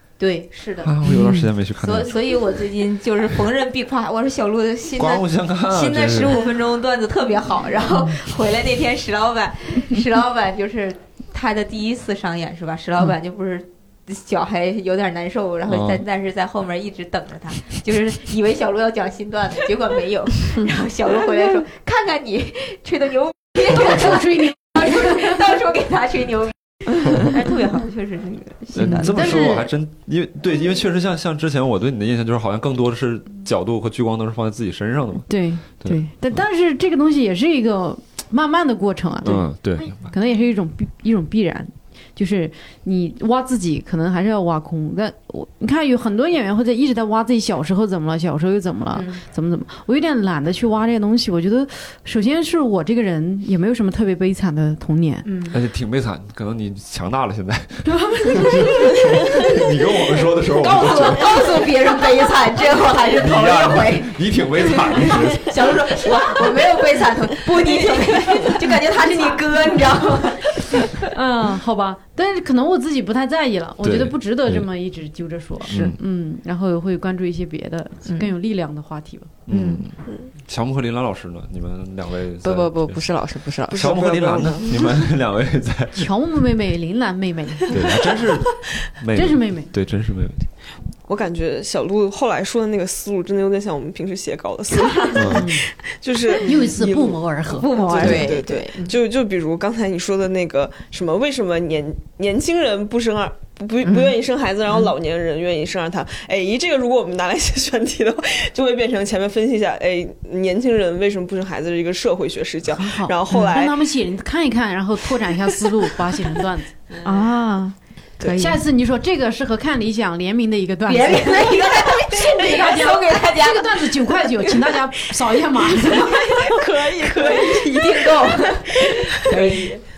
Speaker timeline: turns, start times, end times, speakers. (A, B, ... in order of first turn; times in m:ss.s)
0:00.2-0:01.0 A
0:00.8-0:02.3 B
0:01.1-0:01.4 C
0:01.8-0:29.5 A
0:05.0-0:06.4 B
0:15.7-0:16.0 B
0:23.7-0:25.3 C
0:28.7-0:35.3 B
0:28.8-0:29.7 C
0:35.3-0:55.3 C
0:39.2-0:40.1 B
0:48.9-0:49.2 A
0:55.2-0:55.6 A
0:55.5-1:01.6 B
1:00.5-1:11.0 A
1:03.1-1:05.8 B
1:11.0-1:19.3 C
1:13.8-1:14.7 B
1:15.7-1:16.0 B
1:19.5-1:23.0 B
1:19.5-1:19.9 A
1:22.4-1:24.5 D
1:23.7-1:26.1 B
1:23.7-1:24.8 E
1:26.0-1:27.8 C
1:27.7-1:30.5 B
1:29.2-1:29.7 C
1:31.1-1:37.2 E
1:34.9-1:35.3 A
1:35.2-1:35.5 B
1:35.3-1:35.6 C
1:36.4-1:37.7 C
1:37.6-1:39.0 A
1:37.9-1:53.8 E
1:37.9-1:38.7 D
1:43.8-1:44.2 A
1:52.7-1:56.7 C
1:56.9-1:57.2 D
1:57.0-1:58.6 A
1:58.2-1:58.5 E
1:58.3-2:06.5 C
2:00.9-2:04.8 A
2:05.7-2:09.8 A
2:06.5-2:09.7 E